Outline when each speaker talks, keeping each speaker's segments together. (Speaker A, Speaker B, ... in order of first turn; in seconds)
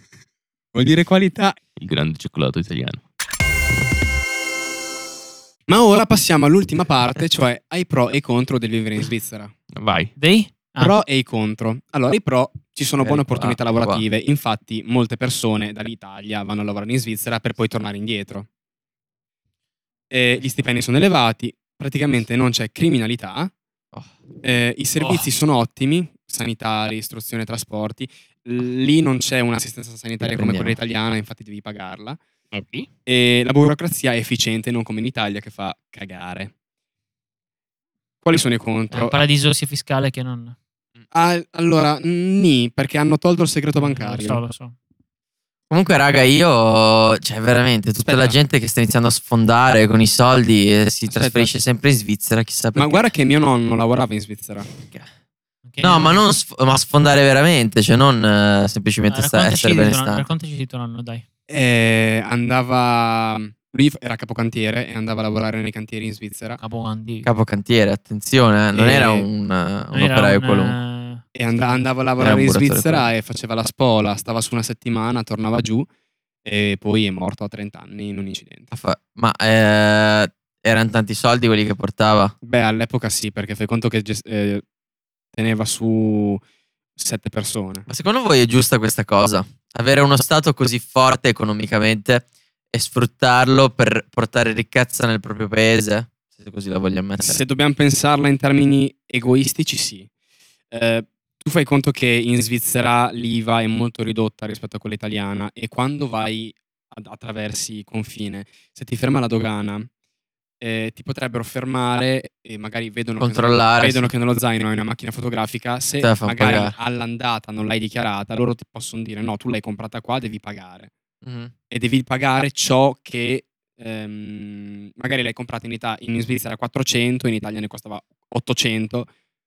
Speaker A: 0.7-1.6, 5.7-9.5, 10.8-18.5, 20.1-23.5, 24.4-32.2, 33.0-36.5, 38.2-39.2, 41.1-44.4, 48.0-48.4, 51.1-51.5, 52.7-54.7, 61.5-66.6, 68.7-69.3, 71.3-75.9, 76.4-78.7, 82.4-84.6, 85.3-86.4, 87.0-87.8, 97.2-100.1, 100.7-109.9, 110.6-120.9, 121.7-129.1
Speaker B: 1.8-3.0, 9.7-10.1, 25.0-25.2, 32.5-32.9
Speaker C: 10.2-11.0, 38.9-40.5, 43.8-44.7, 55.6-56.2, 59.1-61.2, 66.6-67.3, 69.9-71.2
Speaker D: 13.0-14.0, 30.2-30.8, 45.7-53.0, 55.8-60.2, 67.2-70.8, 72.2-73.1, 78.7-82.3, 87.9-97.4, 113.2-114.1, 116.0-116.7, 121.2-121.5